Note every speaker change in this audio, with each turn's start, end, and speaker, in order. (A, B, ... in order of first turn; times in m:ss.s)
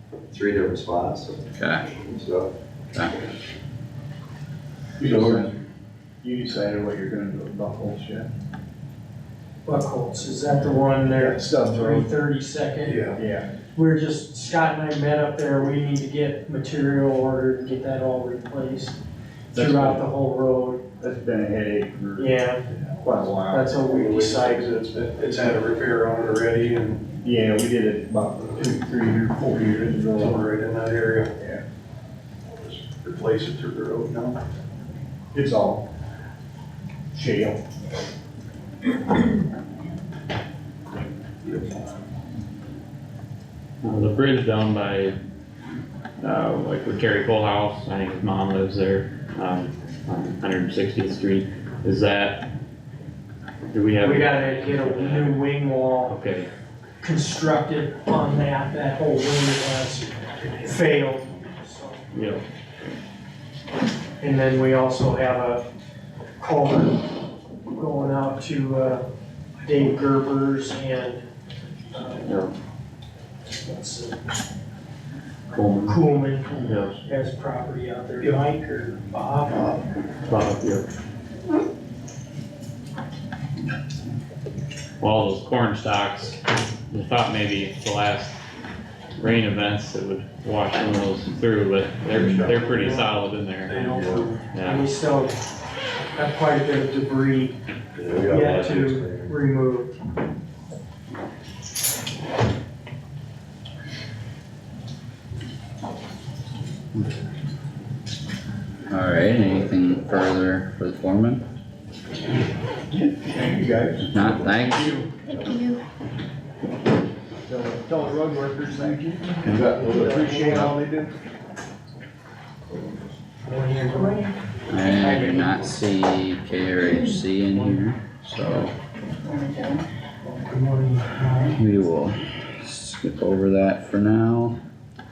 0:00.3-0:01.4 A
0:01.6-0:01.9 B
0:02.0-0:02.5 A
0:05.0-0:05.6 C
0:05.0-0:05.4 A
0:06.2-0:08.3 C
0:09.7-0:13.0 D
0:11.2-0:12.1 C
0:12.9-0:13.2 E
0:13.1-0:13.5 C
0:13.8-0:19.0 D
0:19.5-0:20.8 D
0:19.6-0:20.0 C
0:21.0-0:22.3 C
0:22.2-0:22.6 D
0:23.0-0:23.7 C
0:23.5-0:24.7 D
0:23.8-0:27.1 E
0:27.2-0:30.4 C
0:30.2-0:31.3 E
0:31.4-0:31.6 C
0:32.6-0:34.4 E
0:35.3-0:35.8 C
0:37.1-0:37.6 C
0:43.8-0:45.2 F
0:46.2-0:52.5 F
0:53.7-0:55.4 F
0:54.0-0:56.2 D
0:56.0-0:56.5 F
0:57.0-1:02.0 D
1:02.1-1:02.4 F
1:04.2-1:05.6 D
1:06.4-1:07.1 D
1:07.7-1:09.0 D
1:09.6-1:11.2 D
1:11.9-1:12.4 D
1:12.2-1:12.5 F
1:13.5-1:14.4 D
1:15.5-1:16.0 F
1:15.9-1:19.8 D
1:16.6-1:17.0 F
1:20.2-1:20.9 F
1:25.0-1:28.4 F
1:29.2-1:34.0 F
1:32.1-1:33.1 E
1:33.7-1:34.5 E
1:34.0-1:34.2 A
1:34.5-1:34.9 F
1:34.6-1:35.4 D
1:36.1-1:37.6 D
1:38.0-1:39.4 A
1:38.2-1:40.0 D
1:48.9-1:51.4 B
1:52.9-1:54.6 C
1:54.1-1:55.0 B
1:57.5-2:01.2 C
1:59.4-2:00.5 A
2:00.2-2:00.5 D
2:03.4-2:04.3 D
2:04.7-2:08.7 B
2:05.0-2:05.6 D
2:09.2-2:11.6 D
2:11.6-2:14.6 B